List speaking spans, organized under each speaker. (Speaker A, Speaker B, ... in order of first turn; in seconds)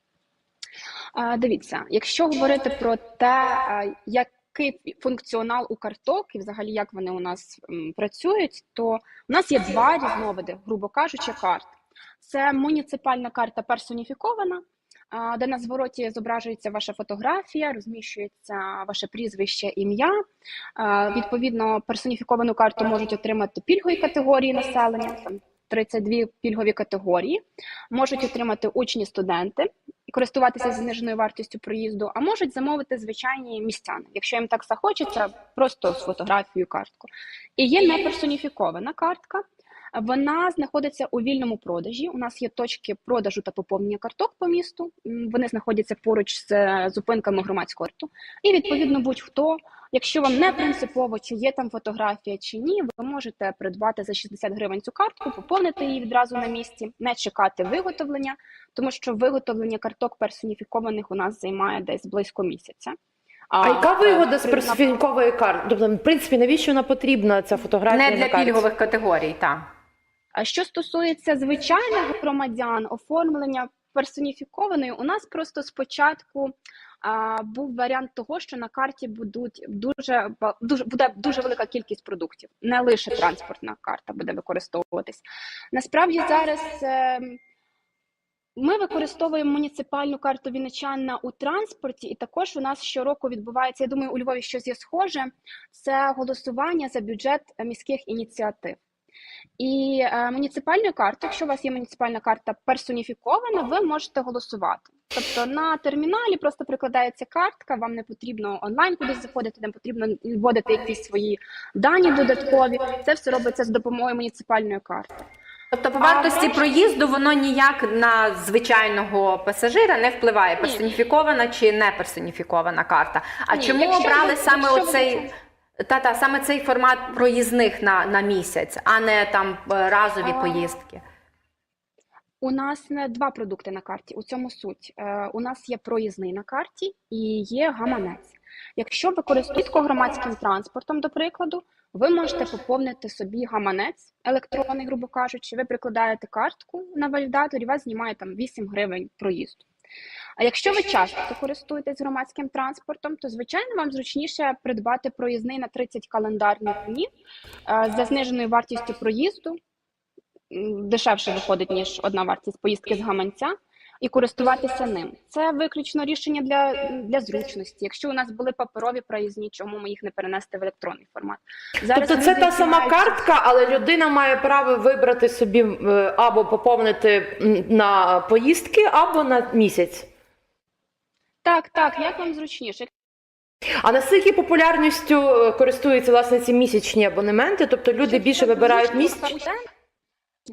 Speaker A: 1.1-20.2, 20.8-63.0, 63.5-64.8, 70.3-87.4, 88.6-98.8, 99.6-115.3, 116.0-116.6, 120.6-120.9, 123.5-125.3, 130.2-130.7, 132.4-149.7, 150.4-157.1, 157.7-159.6, 160.5-173.2, 181.4-182.9, 188.1-189.7
Speaker B: 63.6-68.6, 171.9-180.1, 183.8-189.3
Speaker C: 67.9-69.7, 115.7-125.3, 125.8-131.0